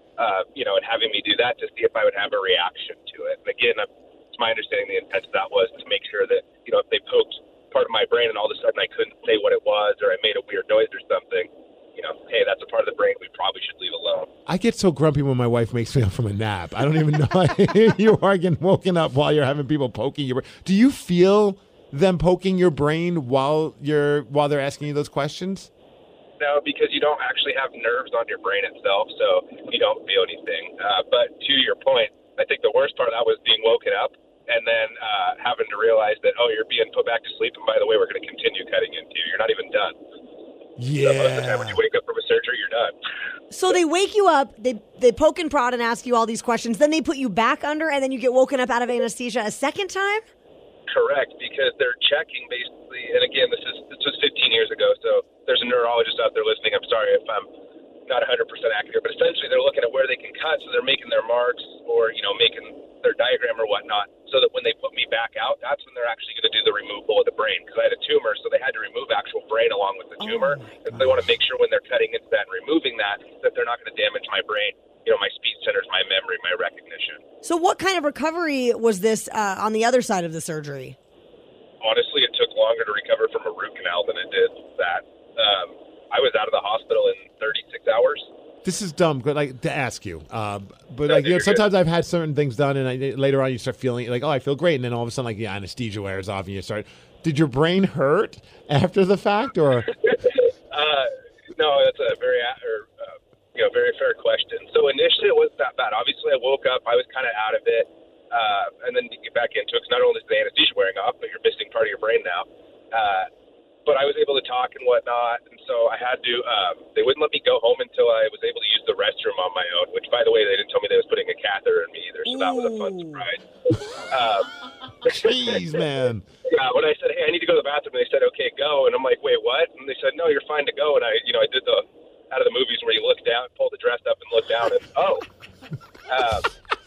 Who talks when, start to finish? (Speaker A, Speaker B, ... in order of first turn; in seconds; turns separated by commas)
Speaker A: 0.2-14.3, Speaker B: 14.5-25.7, Speaker A: 26.4-40.0, Speaker B: 40.8-41.8, Speaker A: 41.0-43.0, Speaker C: 43.5-50.2, Speaker A: 50.9-57.5, Speaker A: 58.1-77.2, Speaker C: 70.2-71.1, Speaker C: 77.4-81.0, Speaker A: 81.8-88.3, Speaker B: 88.6-99.9, Speaker A: 91.1-91.6, Speaker A: 100.0-113.3, Speaker A: 113.9-124.5, Speaker C: 122.3-123.2, Speaker B: 125.0-126.2, Speaker A: 125.1-125.5, Speaker A: 126.5-135.2, Speaker A: 136.1-136.5